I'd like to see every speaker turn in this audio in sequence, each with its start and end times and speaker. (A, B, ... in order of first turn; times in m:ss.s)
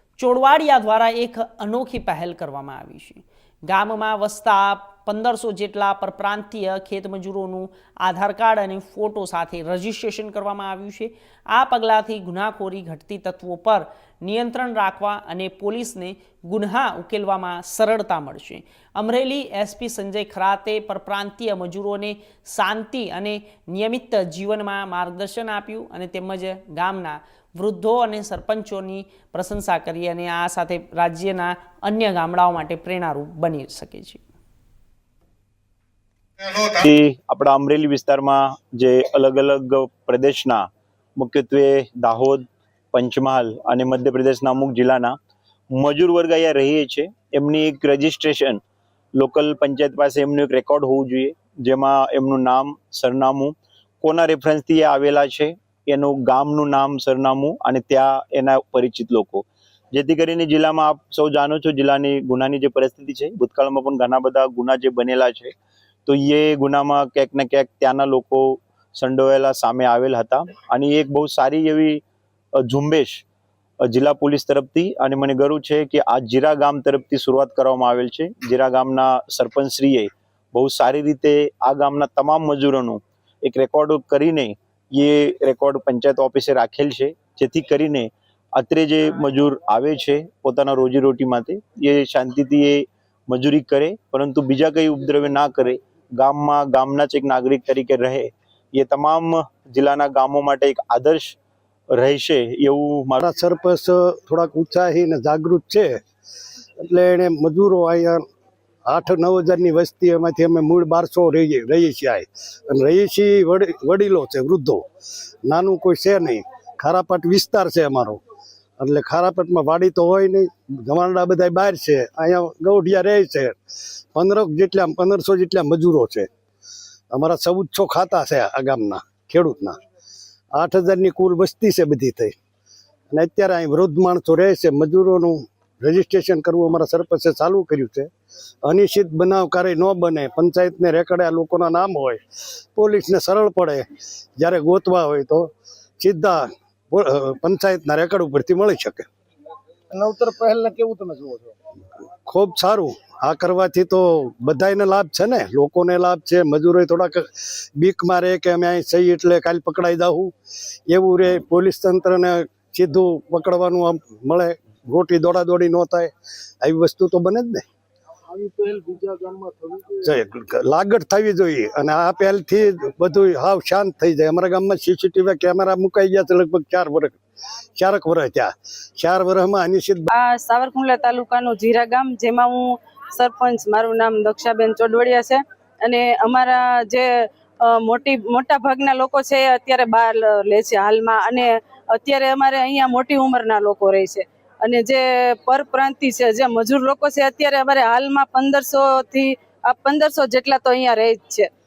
0:00.2-0:34.2 A
0:36.4-0:40.6 B
0:41.2-0:45.1 B
0:45.7-0:48.6 B
0:49.2-1:05.5 B
1:06.0-1:12.0 B
1:12.6-1:13.2 B
1:13.8-1:41.4 B
1:41.9-1:43.2 B
1:43.2-1:46.0 C
1:46.8-1:48.2 C
1:48.9-1:54.8 C
1:55.4-1:58.2 C
1:58.8-2:03.5 C
2:04.1-2:06.3 C
2:07.1-2:09.8 C
2:10.5-2:12.3 C
2:13.1-2:18.1 C
2:18.6-2:22.2 C
2:22.8-2:23.8 C
2:24.4-2:29.1 C
2:29.9-2:31.5 D
2:32.3-2:40.3 C
2:40.9-2:46.1 C
2:46.6-2:47.6 C
2:48.3-2:50.0 D
2:50.0-2:57.2 C
2:57.8-3:00.1 C
3:00.1-3:07.1 E
3:07.6-3:21.5 E